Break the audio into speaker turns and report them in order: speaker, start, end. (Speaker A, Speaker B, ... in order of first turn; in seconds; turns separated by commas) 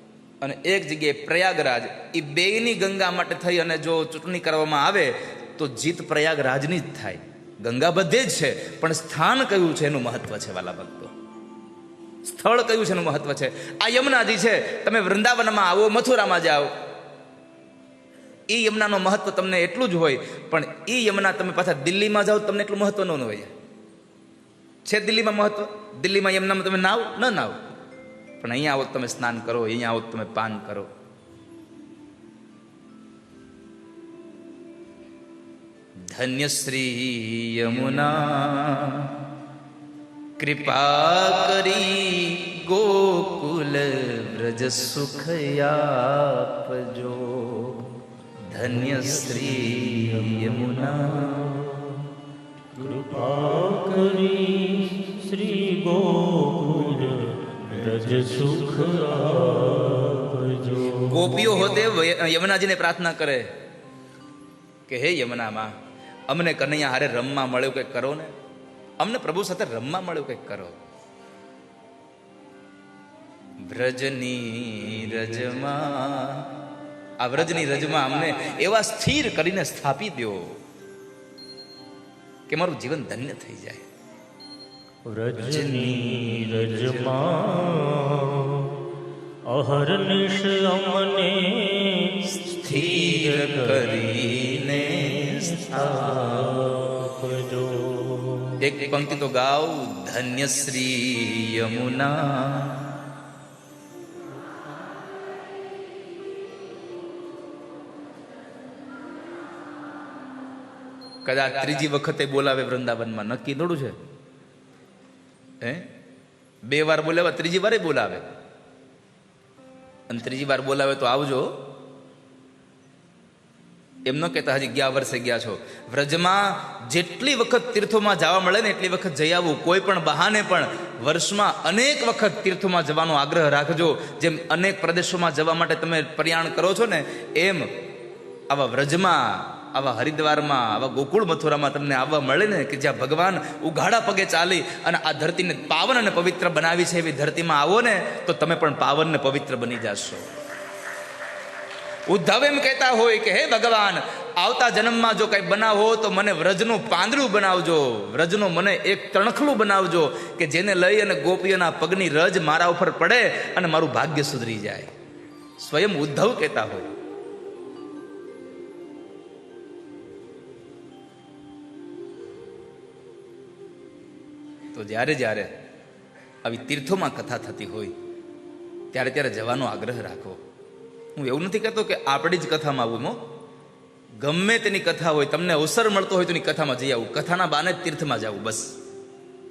Speaker A: 0.4-11.1, Speaker A: 12.2-16.7, Speaker A: 18.5-23.5, Speaker A: 24.9-27.6, Speaker A: 28.4-30.9, Speaker A: 36.1-39.2, Speaker A: 40.4-48.0, Speaker A: 48.5-51.9, Speaker B: 52.7-61.2, Speaker A: 61.0-63.5, Speaker A: 64.9-65.8, Speaker A: 66.3-68.3, Speaker A: 69.0-70.8, Speaker A: 73.6-76.5, Speaker A: 77.2-80.6, Speaker A: 82.5-83.9, Speaker B: 85.0-88.9, Speaker A: 85.4-87.2, Speaker B: 89.5-94.4, Speaker A: 92.6-96.6, Speaker B: 95.0-98.6, Speaker A: 98.6-103.0, Speaker A: 111.2-114.0, Speaker A: 115.6-115.9, Speaker A: 116.7-118.2, Speaker A: 120.1-121.7, Speaker A: 124.1-137.7, Speaker A: 138.5-150.3, Speaker A: 152.1-164.9, Speaker A: 165.6-166.9, Speaker A: 174.7-175.5, Speaker A: 176.4-177.9, Speaker A: 178.9-180.4, Speaker A: 181.2-183.2, Speaker A: 184.2-188.8